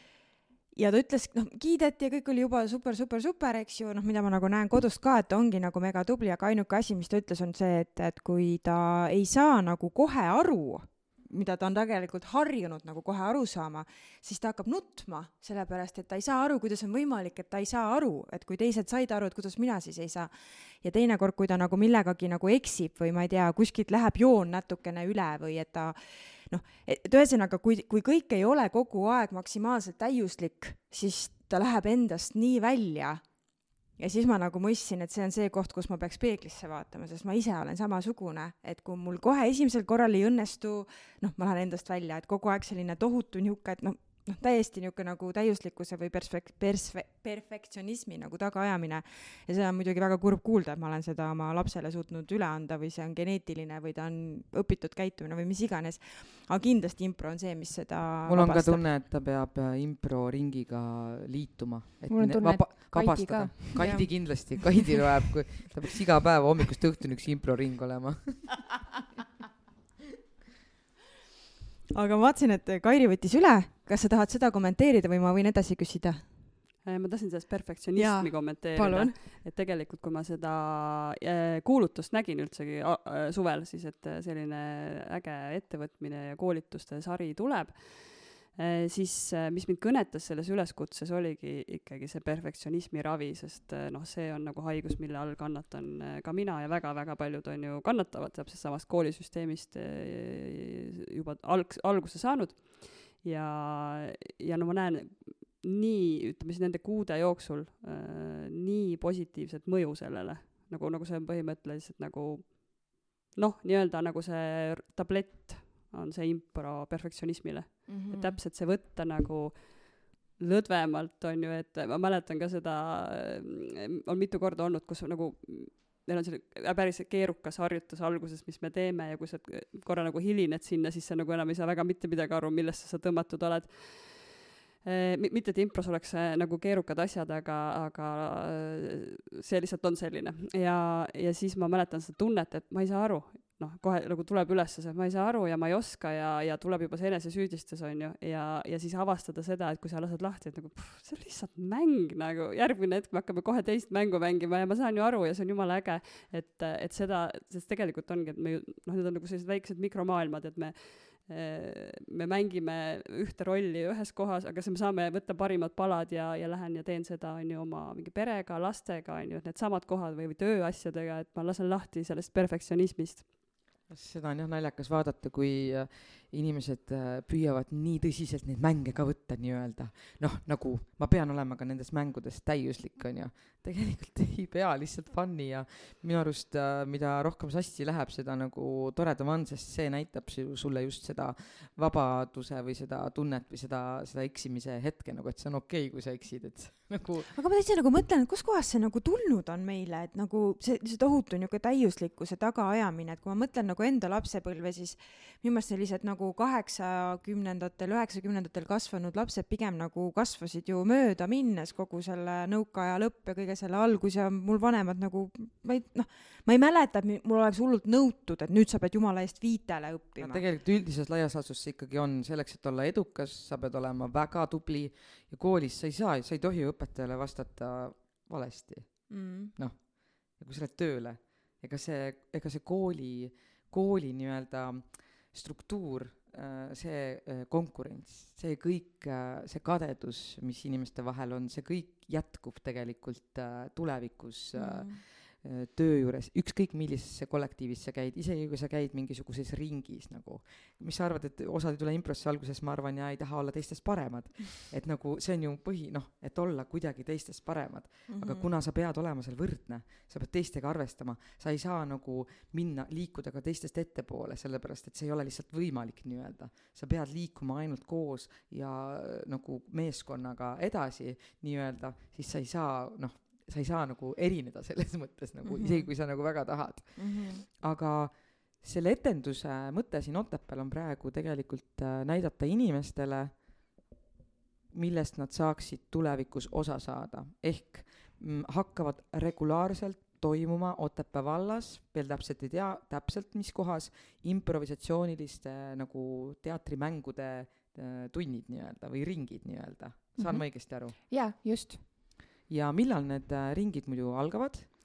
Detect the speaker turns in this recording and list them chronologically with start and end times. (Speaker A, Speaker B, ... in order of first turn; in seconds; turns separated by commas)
Speaker A: 0.7-58.9, Speaker B: 58.2-68.7, Speaker C: 62.1-64.0, Speaker A: 63.7-64.8, Speaker A: 71.9-76.3, Speaker D: 76.8-173.3, Speaker A: 78.0-79.2, Speaker A: 117.9-118.4, Speaker B: 173.9-197.3, Speaker A: 197.3-220.4, Speaker B: 220.2-283.9, Speaker A: 229.1-229.5, Speaker A: 244.5-245.0, Speaker A: 258.1-258.5, Speaker A: 275.4-277.4, Speaker B: 284.7-300.9, Speaker A: 300.2-300.4, Speaker C: 301.1-301.8, Speaker B: 302.5-304.7